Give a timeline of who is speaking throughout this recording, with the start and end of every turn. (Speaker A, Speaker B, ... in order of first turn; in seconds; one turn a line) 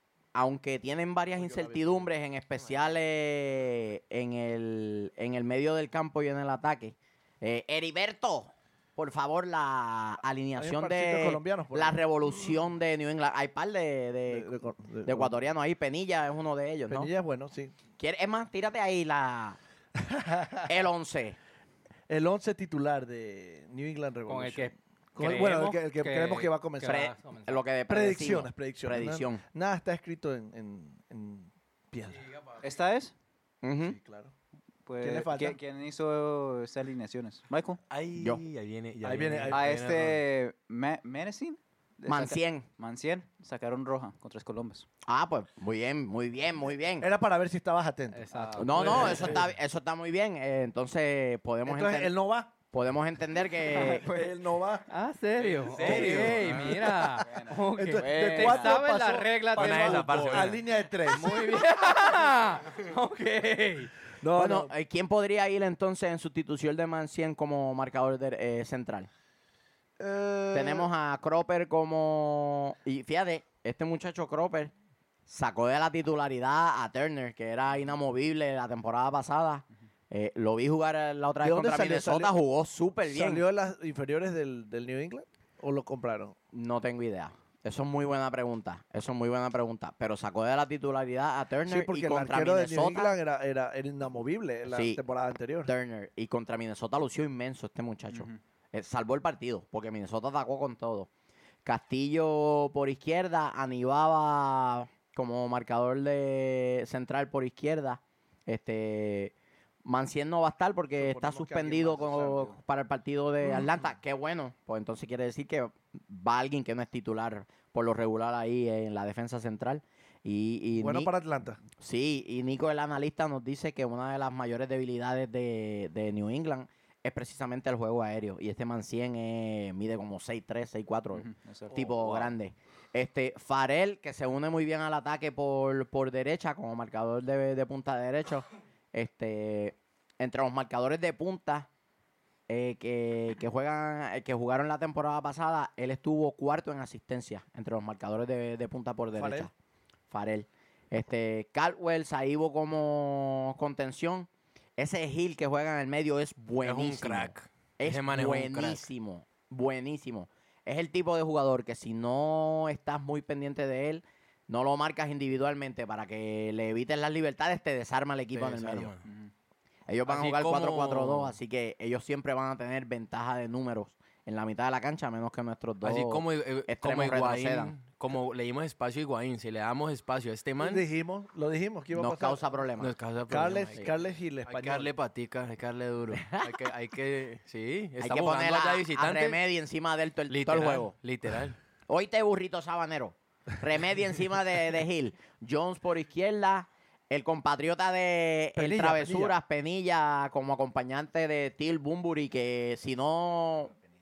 Speaker A: 0.3-17.1
Speaker B: 1.3-2.1
Speaker B: 10.6-12.0
Speaker B: 14.3-15.5
Speaker B: 16.9-17.7
Speaker A: 18.0-19.6
Speaker B: 19.9-20.7
Speaker A: 20.7-21.4
Speaker B: 22.1-27.0
Speaker C: 24.3-27.6
Speaker A: 26.8-29.4
Speaker B: 27.9-32.2
Speaker D: 32.6-33.1
Speaker A: 33.6-34.0
Speaker B: 33.8-34.3
Speaker D: 34.9-37.8
Speaker B: 35.0-35.6
Speaker E: 37.9-40.2
Speaker B: 39.0-39.8
Speaker D: 39.5-44.9
Speaker A: 42.1-42.7
Speaker A: 45.0-47.1
Speaker B: 47.0-49.4
Speaker C: 48.1-49.4
Speaker D: 48.3-49.5
Speaker A: 48.6-52.1
Speaker B: 51.6-52.5
Speaker A: 52.7-54.0
Speaker D: 53.6-54.3
Speaker B: 53.9-54.9
Speaker C: 54.9-63.9
Speaker E: 55.4-56.7
Speaker B: 55.8-57.0
Speaker D: 55.9-58.8
Speaker B: 57.7-61.5
Speaker E: 59.5-60.6
Speaker B: 64.2-64.7
Speaker A: 64.3-69.1
Speaker B: 70.0-70.9
Speaker A: 70.5-74.7
Speaker A: 75.3-83.4
Speaker B: 81.4-82.3
Speaker B: 83.1-86.3
Speaker A: 86.5-93.1
Speaker B: 91.7-95.7
Speaker A: 94.7-95.0
Speaker A: 95.6-101.1
Speaker D: 98.1-98.4
Speaker A: 101.6-109.3
Speaker A: 109.8-121.1
Speaker B: 110.9-112.6
Speaker B: 120.8-121.6
Speaker A: 121.8-141.7
Speaker D: 131.1-131.8
Speaker B: 131.7-132.3
Speaker A: 142.5-149.5
Speaker B: 149.1-149.5
Speaker A: 150.1-168.9
Speaker E: 156.6-158.8
Speaker E: 168.3-169.0
Speaker D: 169.1-169.3
Speaker A: 169.9-177.7
Speaker E: 170.1-171.4
Speaker E: 175.8-180.8
Speaker B: 180.6-182.4
Speaker A: 181.9-182.9
Speaker E: 182.8-183.9
Speaker B: 183.3-184.9
Speaker E: 184.4-189.4
Speaker A: 186.2-186.5
Speaker A: 188.0-190.9
Speaker E: 190.3-191.6
Speaker A: 191.9-203.7
Speaker B: 198.6-199.4